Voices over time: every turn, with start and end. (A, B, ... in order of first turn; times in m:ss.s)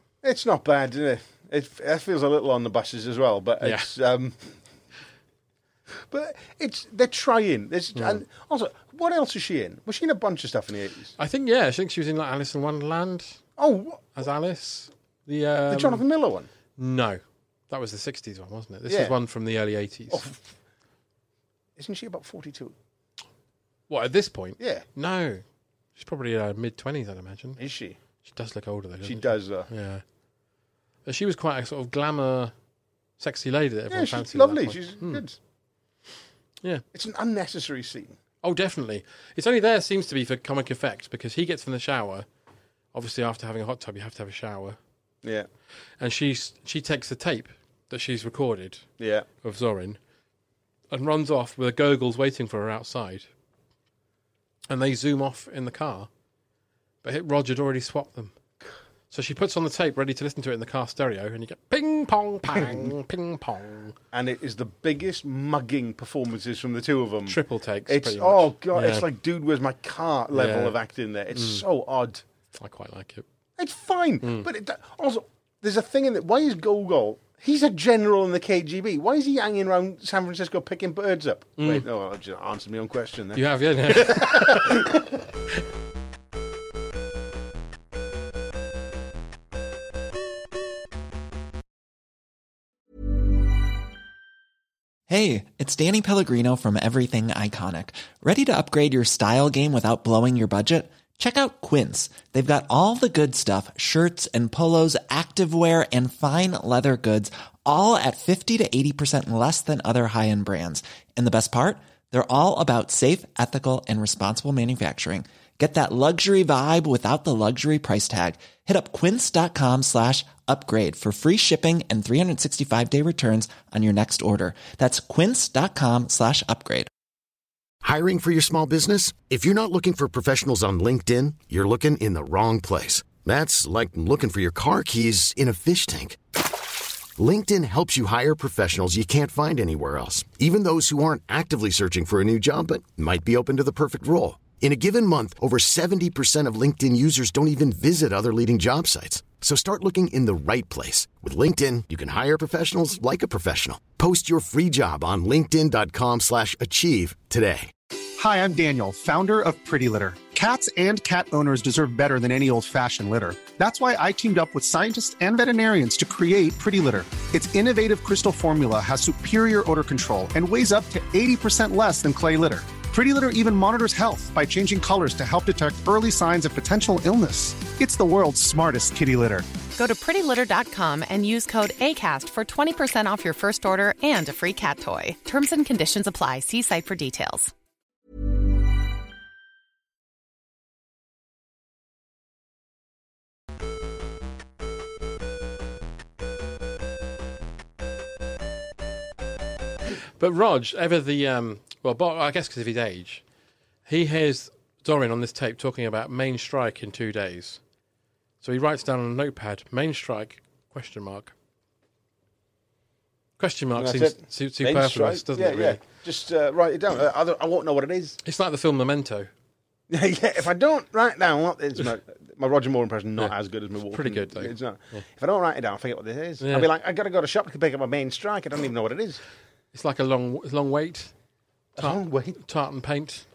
0:00.2-0:04.6 A
0:03.6-0:03.9 B
0:06.1-0:11.2 A
0:11.2-0:13.4 B
0:13.6-0:14.2 A
0:14.2-0:16.0 B
0:15.7-0:16.5 A
0:16.8-0:20.2 B
0:18.9-0:19.2 A
0:20.1-0:20.5 A
0:21.8-0:22.8 A
0:23.9-0:25.4 B
0:24.6-0:24.9 A
0:26.0-0:27.6 B
0:27.6-0:28.0 A
0:28.2-0:30.0 B
0:29.0-0:29.7 A
0:31.1-0:32.5 B
0:33.2-0:35.2 B
0:33.9-0:35.4 A
0:36.9-0:38.2 A
0:38.4-0:42.3 B
0:42.9-0:44.8 B
0:45.2-0:45.5 A
0:46.0-0:48.9 B
0:49.0-0:49.3 A
0:49.4-0:50.0 B
0:50.9-0:53.3 B
0:54.7-0:56.1 B
0:57.0-0:58.3 B
0:59.1-1:04.0 B
1:04.1-1:12.2 A
1:07.3-1:09.1 B
1:10.3-1:10.8 B
1:11.3-1:11.6 B
1:12.6-1:13.2 B
1:13.6-1:25.0 A
1:21.6-1:21.8 B
1:23.4-1:24.9 B
1:35.1-2:06.9 C
2:07.8-2:16.2 D
2:17.2-2:37.7 D
2:38.2-2:59.5 E
2:59.8-3:07.5 F
3:20.2-3:23.2 B
3:23.9-3:27.6 B
3:28.4-3:31.3 B
3:33.4-3:35.8 B
3:33.8-3:38.2 A
3:38.2-3:39.3 B
3:39.9-3:49.2 A
3:43.9-3:45.0 B
3:46.4-3:46.7 B
3:49.7-3:51.1 B
3:51.8-3:52.4 A
3:51.8-3:53.2 B